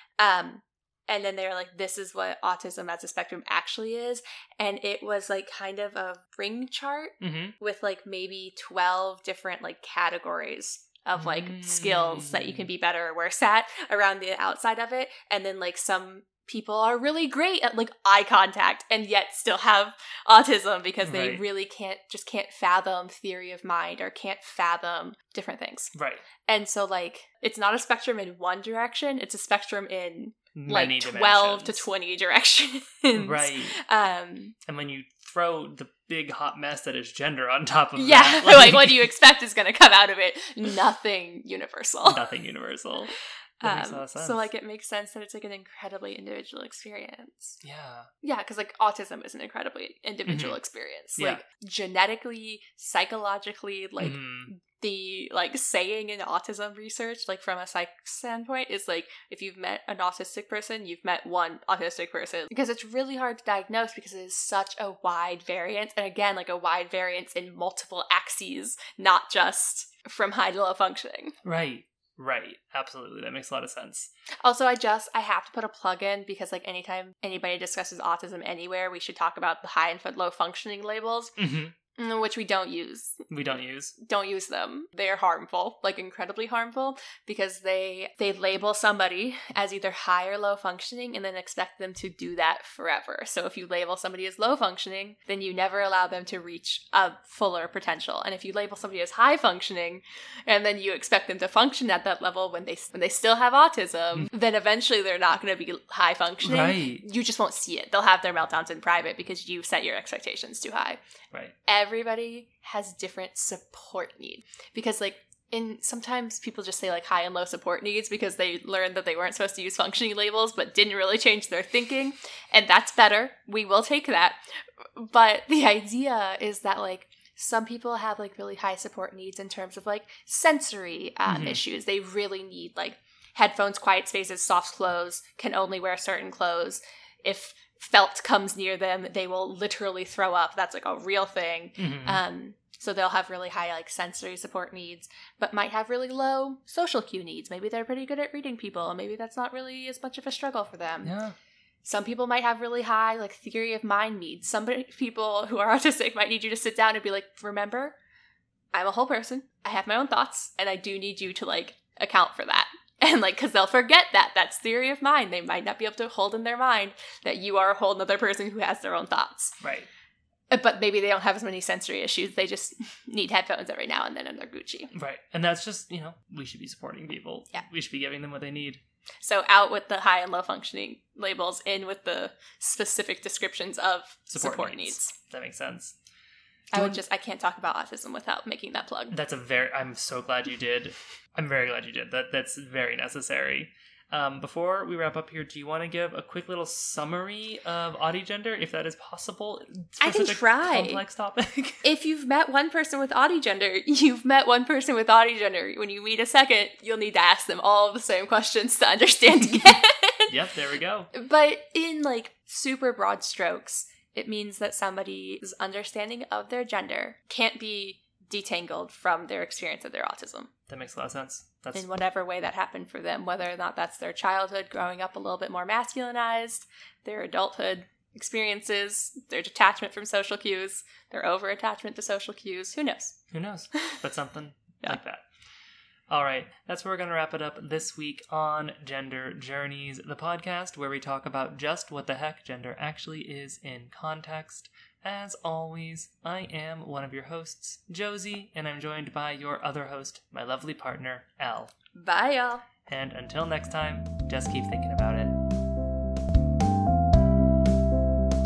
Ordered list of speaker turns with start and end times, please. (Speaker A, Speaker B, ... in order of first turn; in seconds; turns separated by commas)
Speaker A: 0.2-25.9, Speaker B: 7.2-7.5, Speaker B: 11.1-12.6, Speaker B: 21.0-21.4, Speaker B: 25.9-26.2, Speaker A: 26.4-34.5, Speaker B: 30.5-31.9, Speaker B: 33.1-33.8, Speaker B: 34.6-39.1, Speaker A: 38.0-42.2, Speaker B: 42.0-44.5, Speaker A: 43.6-47.6, Speaker B: 47.6-48.1, Speaker A: 48.2-71.3, Speaker B: 50.3-50.6, Speaker B: 51.2-51.4, Speaker B: 54.0-54.5, Speaker B: 71.4-74.1, Speaker A: 74.4-81.3, Speaker B: 81.4-81.7, Speaker A: 82.0-83.2, Speaker B: 83.3-83.9, Speaker A: 84.0-111.0, Speaker B: 106.4-107.0, Speaker A: 111.7-151.1, Speaker B: 131.3-131.6, Speaker B: 141.8-142.2, Speaker B: 151.0-151.3, Speaker A: 151.8-157.9, Speaker A: 158.7-169.6, Speaker B: 169.6-169.9, Speaker A: 170.5-174.9, Speaker B: 174.9-178.8, Speaker A: 179.2-185.1, Speaker B: 184.3-185.9, Speaker B: 186.7-187.0, Speaker A: 186.7-189.1, Speaker B: 189.1-201.8, Speaker A: 200.0-201.0, Speaker A: 201.8-210.3, Speaker B: 210.3-211.1, Speaker A: 211.1-220.5, Speaker B: 220.7-221.8, Speaker A: 221.7-233.2, Speaker B: 233.3-235.2, Speaker B: 236.1-251.7, Speaker A: 251.9-252.6, Speaker B: 252.9-255.4